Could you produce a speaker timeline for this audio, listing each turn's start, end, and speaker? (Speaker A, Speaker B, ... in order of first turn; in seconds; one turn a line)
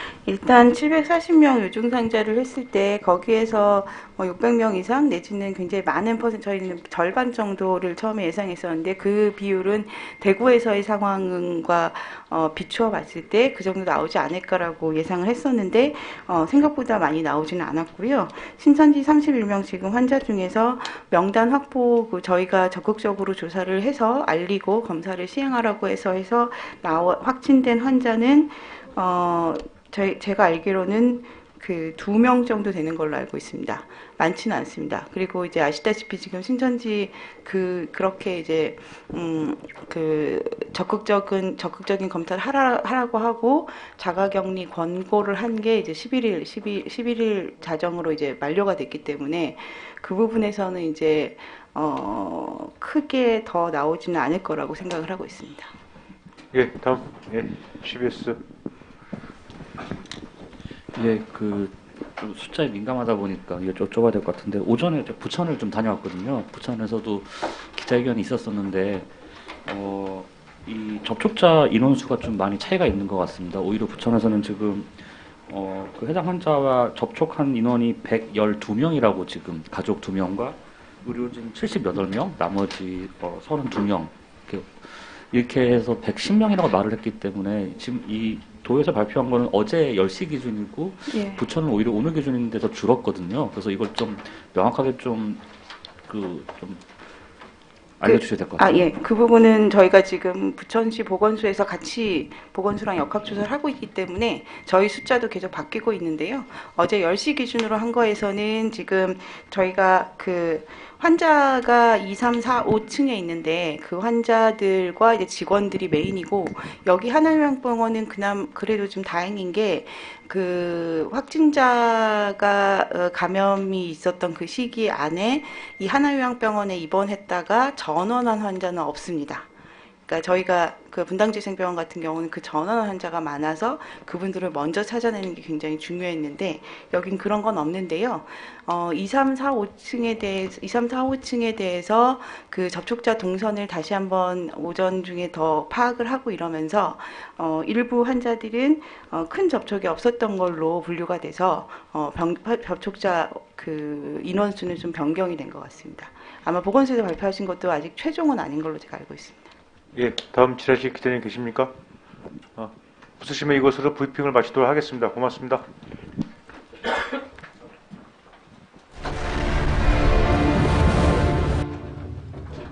Speaker A: 0.2-55.7
Speaker B: 56.5-58.4
Speaker C: 60.9-69.1
Speaker C: 69.7-95.4
Speaker A: 91.1-91.4
Speaker C: 96.1-96.8
Speaker C: 98.0-98.9
Speaker A: 98.0-129.5
Speaker A: 130.1-159.5
Speaker B: 159.9-161.7
Speaker B: 162.6-165.7